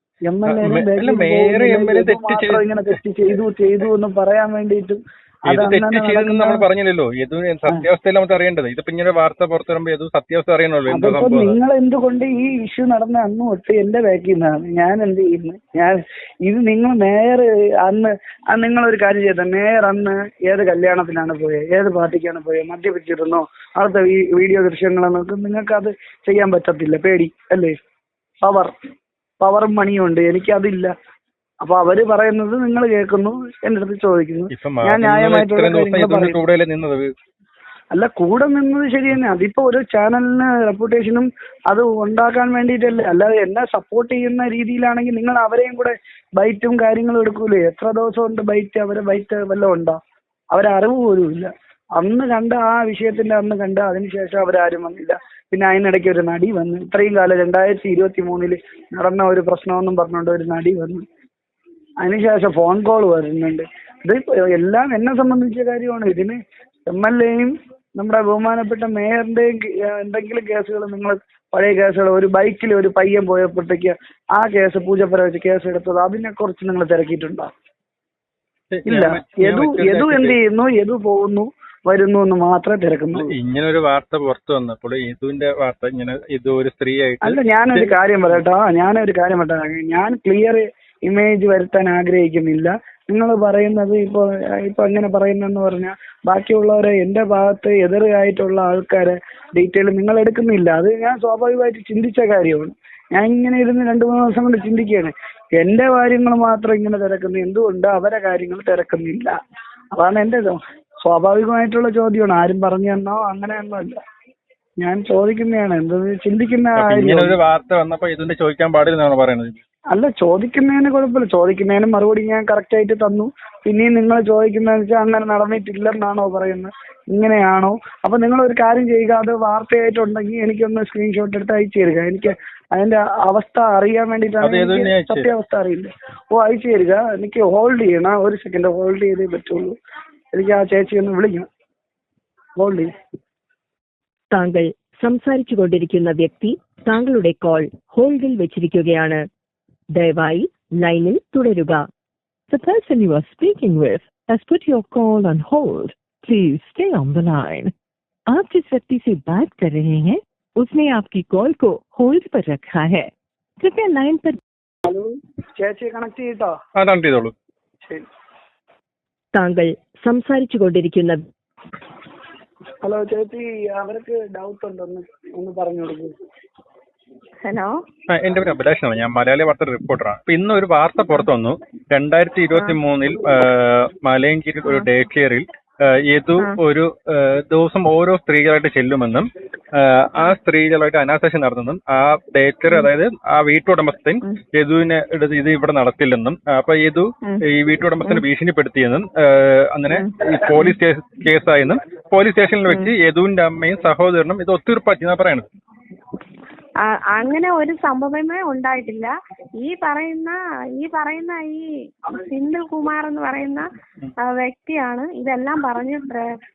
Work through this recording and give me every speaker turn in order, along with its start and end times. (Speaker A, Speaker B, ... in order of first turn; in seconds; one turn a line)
Speaker A: 0.3-6.7
Speaker B: 0.5-3.0
Speaker B: 5.5-11.6
Speaker A: 10.9-27.7
Speaker A: 28.4-28.7
Speaker A: 29.4-30.9
Speaker A: 31.6-36.4
Speaker B: 34.5-37.1
Speaker A: 37.9-50.0
Speaker A: 50.5-61.0
Speaker A: 62.0-77.5
Speaker B: 78.7-80.4
Speaker A: 78.9-83.3
Speaker B: 83.1-88.4
Speaker A: 87.2-109.4
Speaker A: 110.0-114.0
Speaker A: 114.8-117.4
Speaker B: 116.8-119.6
Speaker A: 119.9-139.8
Speaker B: 134.4-135.3
Speaker A: 140.3-141.5
Speaker A: 142.6-142.9
Speaker C: 144.3-149.2
Speaker C: 149.9-151.9
Speaker D: 152.5-157.7
Speaker D: 158.3-164.4
Speaker A: 164.8-166.5
Speaker B: 166.8-167.3
Speaker C: 169.3-171.2
Speaker A: 172.8-176.1
Speaker E: 177.4-177.8
Speaker B: 178.1-205.5
Speaker E: 199.9-200.8
Speaker E: 206.9-213.7
Speaker E: 214.3-216.2